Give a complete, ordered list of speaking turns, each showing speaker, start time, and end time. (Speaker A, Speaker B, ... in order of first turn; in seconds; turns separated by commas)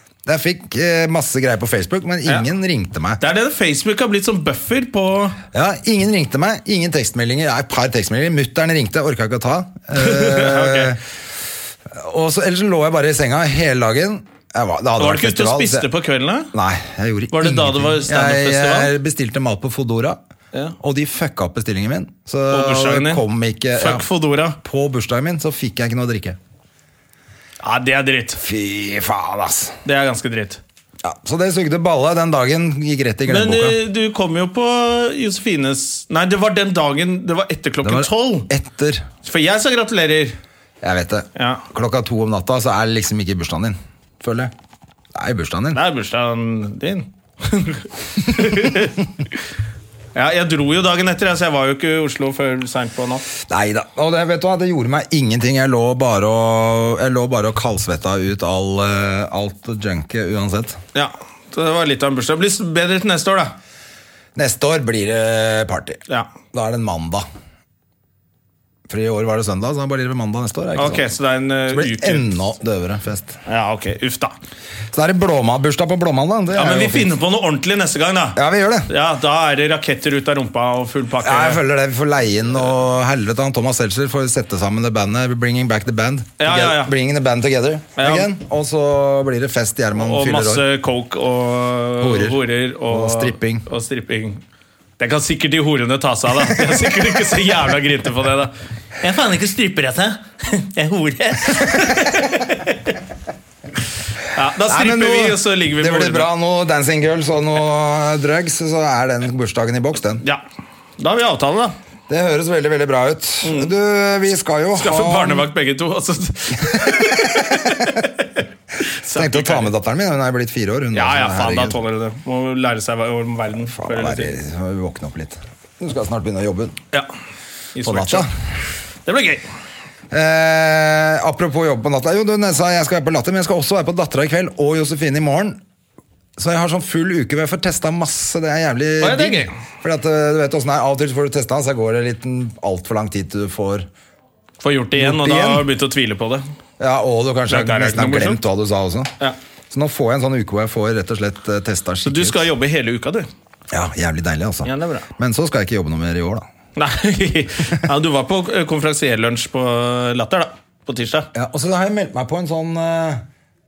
Speaker A: 0.2-3.2, Speaker B: 3.2-5.4, Speaker A: 5.5-11.0, Speaker B: 10.0-10.9, Speaker A: 11.8-15.9, Speaker B: 15.0-16.5, Speaker A: 16.5-20.2, Speaker B: 17.3-18.9, Speaker A: 20.8-24.1, Speaker B: 22.5-23.2, Speaker B: 23.8-24.6, Speaker A: 24.6-26.4, Speaker B: 27.6-28.4, Speaker A: 28.4-29.7, Speaker B: 29.8-30.6, Speaker A: 31.0-33.8, Speaker B: 33.3-38.5, Speaker A: 37.8-39.1, Speaker B: 39.2-40.4, Speaker A: 40.8-44.5, Speaker B: 41.4-41.6, Speaker A: 45.1-45.8, Speaker B: 45.7-49.0, Speaker B: 50.1-53.3, Speaker A: 53.4-60.8, Speaker B: 60.9-63.5, Speaker A: 64.3-66.0, Speaker A: 66.5-67.2, Speaker A: 68.9-71.1, Speaker B: 70.7-72.3, Speaker A: 71.7-73.4, Speaker B: 73.5-74.3, Speaker A: 74.9-77.1, Speaker B: 76.5-81.6, Speaker A: 78.3-78.9, Speaker A: 81.2-90.6, Speaker B: 86.4-86.9, Speaker B: 88.0-88.3, Speaker B: 89.9-94.4, Speaker A: 92.0-93.6, Speaker B: 95.0-102.9, Speaker B: 104.3-106.3, Speaker A: 104.7-110.2, Speaker B: 111.0-111.7, Speaker A: 112.1-115.5, Speaker B: 113.4-113.7, Speaker B: 114.8-118.2, Speaker A: 116.6-117.9, Speaker B: 118.8-119.7, Speaker A: 119.1-121.8, Speaker B: 120.9-124.4, Speaker A: 123.7-126.8, Speaker B: 127.7-128.3, Speaker A: 127.8-128.3, Speaker B: 129.1-129.4, Speaker A: 130.1-135.6, Speaker A: 136.4-143.9, Speaker B: 139.0-139.6, Speaker B: 144.6-146.4, Speaker A: 145.0-145.7, Speaker A: 146.8-149.1, Speaker B: 147.5-148.4, Speaker A: 149.7-152.5, Speaker B: 152.0-153.3, Speaker A: 153.7-156.4, Speaker B: 154.6-155.1, Speaker B: 156.8-161.3, Speaker A: 161.3-163.2